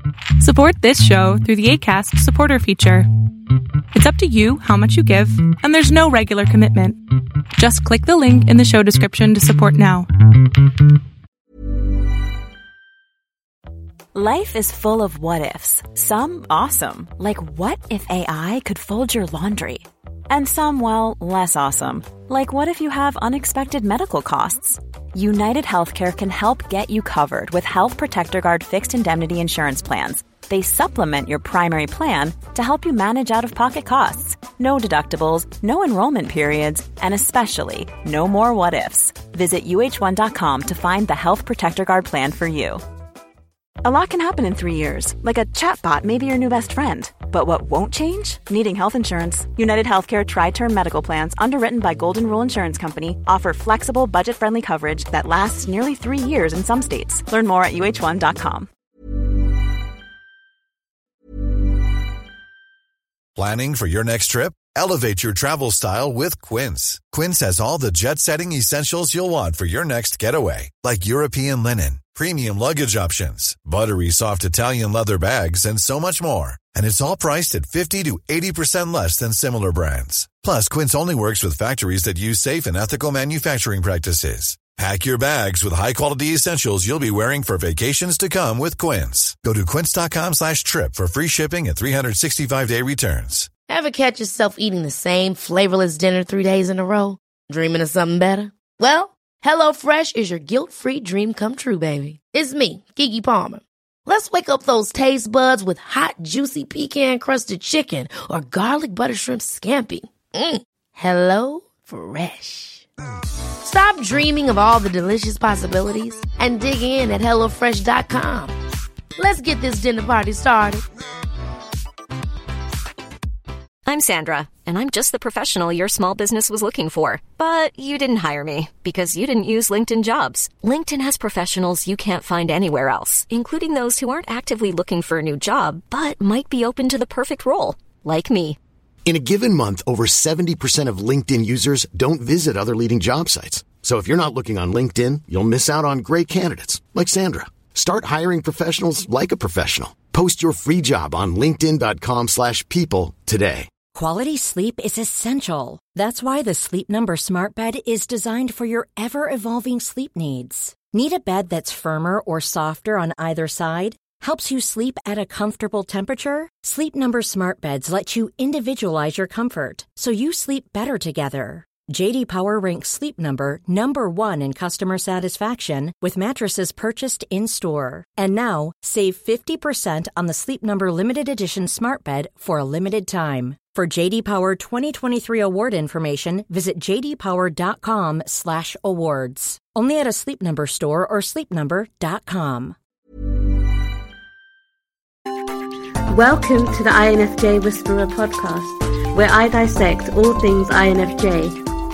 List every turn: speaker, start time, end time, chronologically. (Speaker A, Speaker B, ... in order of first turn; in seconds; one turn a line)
Speaker A: 0.4-3.1
Speaker A: 3.9-7.0
Speaker A: 7.6-10.1
Speaker B: 14.2-42.8
Speaker B: 43.8-58.7
Speaker C: 63.4-93.5
Speaker D: 93.7-112.9
Speaker D: 113.6-118.6
Speaker D: 119.2-120.8
Speaker E: 123.9-138.6
Speaker F: 139.1-153.7
Speaker G: 153.9-192.8
Speaker H: 196.1-201.6